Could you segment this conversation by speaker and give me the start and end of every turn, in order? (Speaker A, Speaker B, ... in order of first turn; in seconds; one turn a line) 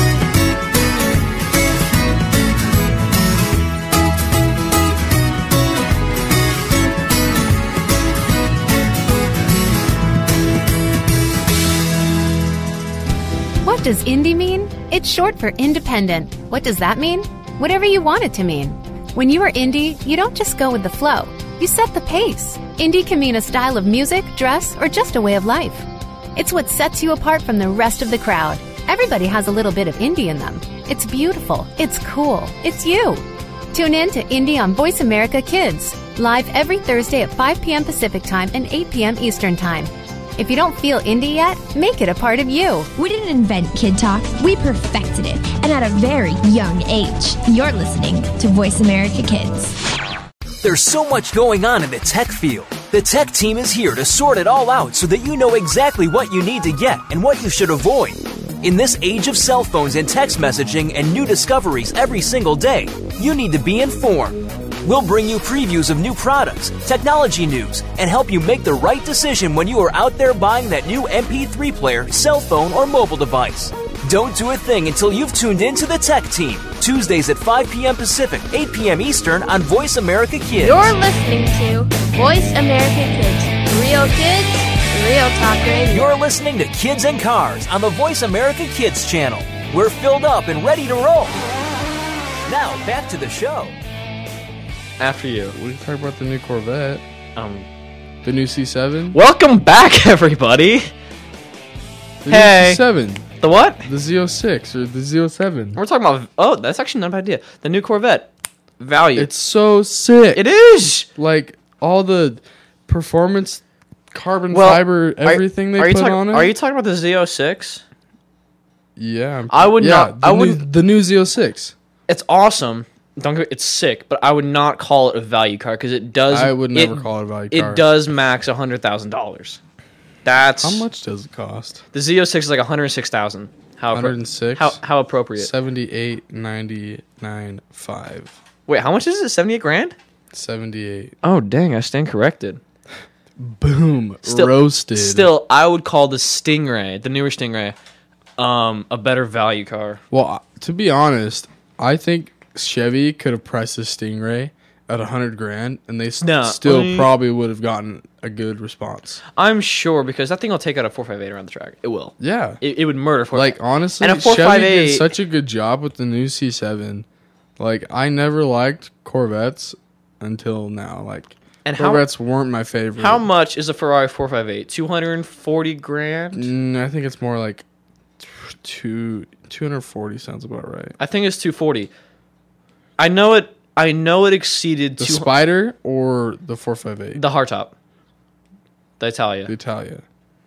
Speaker A: 13.6-42.9
Speaker B: 43.0-49.8
Speaker C: 50.6-80.9
Speaker D: 80.6-86.2
Speaker C: 85.9-91.4
Speaker C: 92.5-93.7
Speaker E: 95.0-95.6
Speaker F: 95.5-97.0
Speaker E: 97.4-97.7
Speaker F: 98.2-99.2
Speaker E: 99.1-100.9
Speaker F: 102.2-103.3
Speaker E: 102.3-102.8
Speaker E: 103.4-103.9
Speaker F: 103.8-105.8
Speaker E: 105.8-109.3
Speaker F: 109.2-110.4
Speaker E: 110.3-111.1
Speaker F: 111.1-116.5
Speaker E: 114.5-117.8
Speaker F: 119.0-121.7
Speaker E: 119.5-120.6
Speaker E: 122.1-129.6
Speaker F: 126.3-127.9
Speaker E: 130.2-130.8
Speaker F: 130.6-131.8
Speaker E: 131.9-135.5
Speaker F: 133.9-134.8
Speaker F: 135.4-138.4
Speaker E: 138.7-139.9
Speaker F: 140.3-141.1
Speaker E: 141.2-142.6
Speaker F: 143.4-145.3
Speaker E: 144.2-147.8
Speaker E: 148.4-150.0
Speaker F: 150.1-159.2
Speaker E: 156.2-157.1
Speaker E: 159.4-165.1
Speaker F: 162.2-162.6
Speaker F: 163.3-167.1
Speaker F: 167.6-173.3
Speaker E: 171.6-172.1
Speaker E: 173.0-176.5
Speaker F: 176.3-177.6
Speaker F: 178.2-180.9
Speaker E: 181.0-181.9
Speaker E: 183.0-185.3
Speaker F: 185.0-187.2
Speaker E: 187.1-187.7
Speaker E: 189.0-189.5
Speaker F: 189.5-190.0